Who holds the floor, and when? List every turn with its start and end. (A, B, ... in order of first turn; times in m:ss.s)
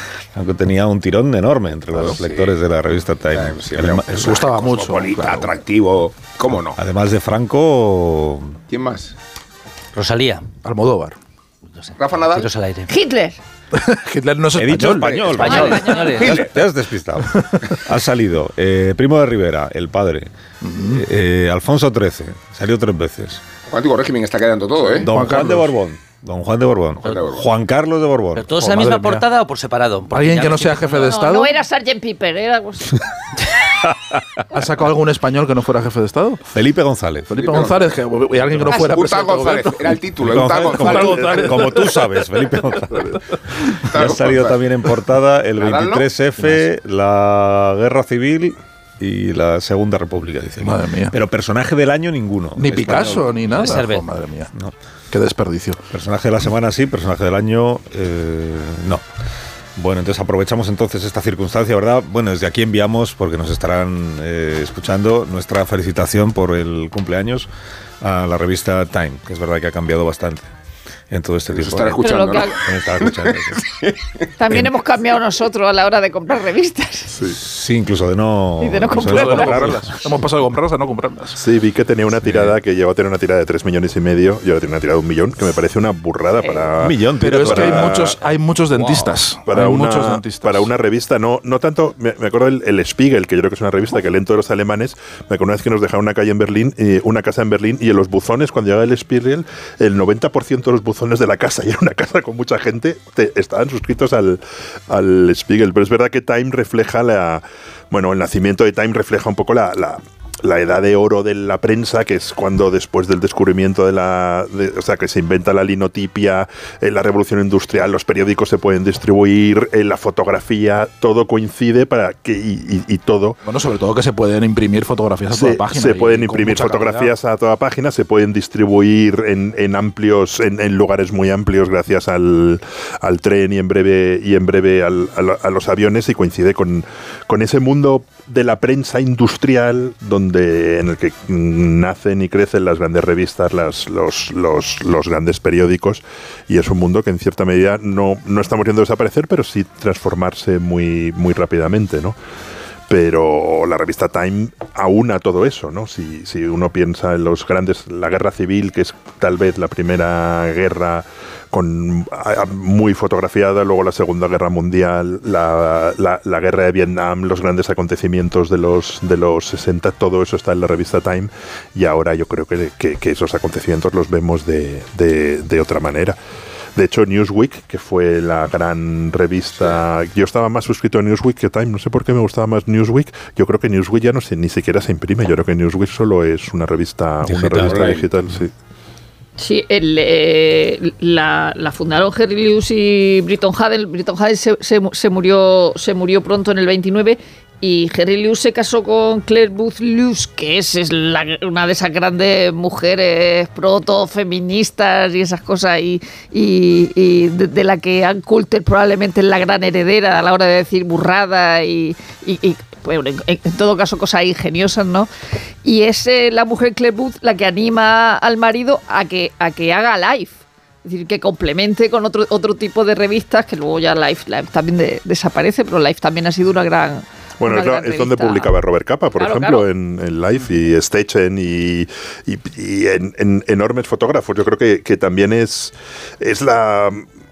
0:00.3-0:04.4 A
0:01.9-0:02.6 B
0:03.3-0:06.8 B
0:04.2-0:05.5 C
0:06.8-0:08.6 A
0:08.7-0:09.2 B
0:09.9-0:10.5 D
0:10.6-0:11.2 C
0:11.8-0:12.9 D
0:12.0-0:12.5 B
0:12.9-0:13.4 E
0:13.7-0:15.1 C
0:14.6-0:20.3 A
0:15.0-0:16.6 B
0:15.4-0:16.4 D
0:15.4-0:16.2 E
0:20.6-0:21.0 C
0:20.9-0:23.4 A
0:23.7-0:25.1 B
0:25.0-0:25.7 C
0:25.0-0:28.5 A
0:27.0-0:27.5 B
0:28.4-0:31.1 D
0:28.6-0:29.2 C
0:30.1-0:31.5 C
0:31.1-0:33.0 E
0:34.5-0:36.4 C
0:36.5-0:37.3 A
0:37.3-0:40.0 C
0:37.3-0:41.4 B
0:40.2-0:43.2 A
0:40.7-0:41.9 C
0:43.8-0:44.6 B
0:43.9-0:53.8 A
0:45.6-0:46.1 B
0:50.6-0:51.2 C
0:52.6-0:54.5 C
0:53.6-0:54.0 D
0:55.1-0:55.8 C
0:55.9-0:59.0 A
0:59.8-1:07.5 A
1:08.0-1:10.5 A
1:11.1-1:13.6 A
1:11.5-1:14.1 B
1:12.0-1:12.6 E
1:14.4-1:17.2 E
1:17.2-1:20.2 A
1:18.6-1:19.7 E
1:18.9-1:21.4 C
1:21.4-1:28.2 F
1:22.2-1:22.6 A
1:26.4-1:26.7 E
1:26.8-1:28.1 A
1:27.2-1:30.7 C
1:29.5-2:03.4 F
2:03.5-2:07.1 C
2:05.3-2:32.2 F
2:32.9-2:56.2 F
2:56.8-3:08.5 F
3:07.2-3:08.0 A
3:07.5-3:08.1 B
3:09.4-3:35.1 E
3:35.6-3:48.6 E
3:47.4-3:57.1 F
3:49.2-3:49.7 E